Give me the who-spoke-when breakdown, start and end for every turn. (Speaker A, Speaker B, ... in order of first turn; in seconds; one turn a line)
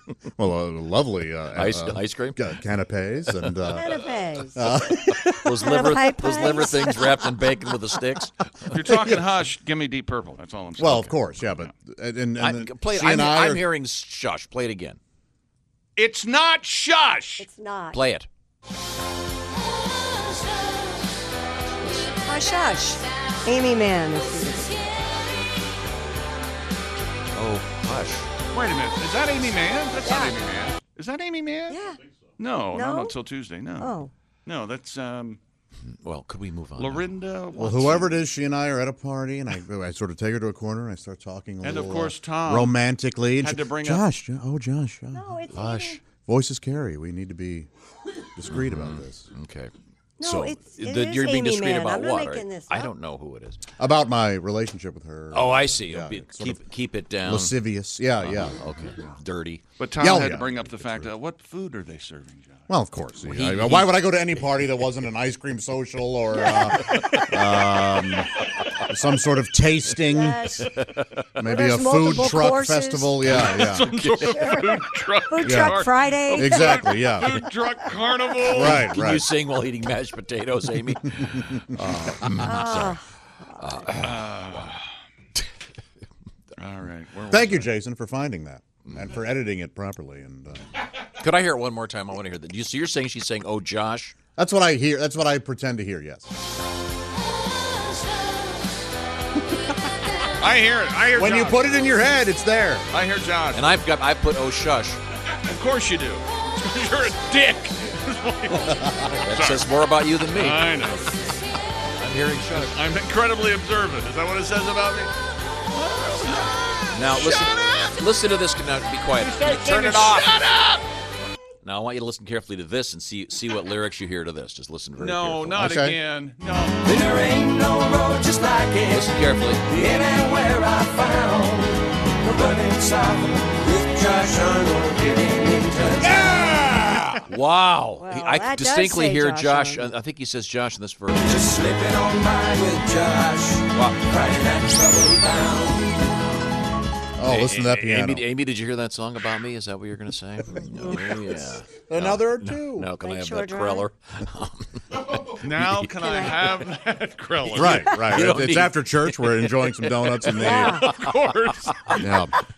Speaker A: 0.3-4.0
Speaker B: 1.5-2.5
Speaker C: 3.7-4.7
Speaker A: 4.5-5.5
Speaker B: 5.2-9.0
Speaker C: 5.6-7.3
Speaker D: 8.7-11.6
Speaker A: 10.8-13.6
Speaker B: 12.4-15.0
Speaker D: 15.9-17.4
Speaker C: 17.4-18.0
Speaker B: 17.9-18.3
Speaker B: 21.6-22.2
Speaker C: 22.2-25.0
Speaker B: 27.3-28.3
Speaker D: 28.5-31.8
Speaker C: 30.0-30.4
Speaker C: 31.7-32.0
Speaker D: 32.4-35.4
Speaker C: 32.7-33.1
Speaker C: 33.8-34.1
Speaker B: 35.8-37.1
Speaker D: 36.8-38.2
Speaker A: 37.5-45.4
Speaker D: 41.6-42.7
Speaker D: 43.4-44.0
Speaker C: 45.1-46.0
Speaker B: 45.5-46.0
Speaker A: 46.2-47.7
Speaker A: 48.4-49.2
Speaker B: 48.5-53.7
Speaker C: 50.2-52.9
Speaker A: 53.8-56.6
Speaker B: 55.3-59.7
Speaker A: 57.2-58.6
Speaker D: 59.8-62.6
Speaker A: 60.0-60.4
Speaker B: 60.5-61.1
Speaker A: 62.7-68.3
Speaker B: 63.2-64.6
Speaker C: 66.4-67.0
Speaker A: 68.9-70.5
Speaker C: 70.0-70.7
Speaker B: 70.6-71.3
Speaker A: 71.3-73.9
Speaker C: 71.4-73.2
Speaker B: 73.3-74.5
Speaker D: 73.4-78.9
Speaker C: 74.2-77.2
Speaker A: 75.4-77.3
Speaker B: 78.5-83.0
Speaker A: 78.5-79.3
Speaker C: 82.4-83.0
Speaker B: 83.5-84.7
Speaker D: 84.0-84.8
Speaker D: 86.6-87.7
Speaker A: 87.3-90.6
Speaker B: 91.2-94.2
Speaker A: 94.3-96.3
Speaker D: 100.4-101.6
Speaker A: 101.1-102.8
Speaker D: 102.9-103.6
Speaker B: 103.5-105.0
Speaker D: 105.4-109.7
Speaker A: 108.6-109.0
Speaker B: 109.1-110.8
Speaker D: 110.3-111.2
Speaker B: 111.9-112.8
Speaker D: 112.6-115.1
Speaker D: 115.8-117.5
Speaker B: 116.9-120.4
Speaker D: 119.1-120.8
Speaker B: 121.6-125.7
Speaker D: 125.0-127.3
Speaker A: 125.5-126.0
Speaker E: 127.0-128.8
Speaker B: 128.8-129.8
Speaker E: 129.8-131.7
Speaker E: 132.2-136.0
Speaker D: 136.0-137.2
Speaker B: 137.3-141.7
Speaker C: 138.0-139.9
Speaker E: 141.6-143.6
Speaker B: 143.7-145.5
Speaker E: 144.6-145.6
Speaker B: 146.1-146.5
Speaker A: 147.2-148.2
Speaker B: 147.2-156.7
Speaker A: 150.7-152.9
Speaker C: 153.0-153.8
Speaker D: 155.4-158.1
Speaker C: 156.0-156.4
Speaker B: 157.4-160.5
Speaker A: 157.5-160.8
Speaker C: 160.4-160.9
Speaker D: 160.5-162.0
Speaker A: 161.9-162.3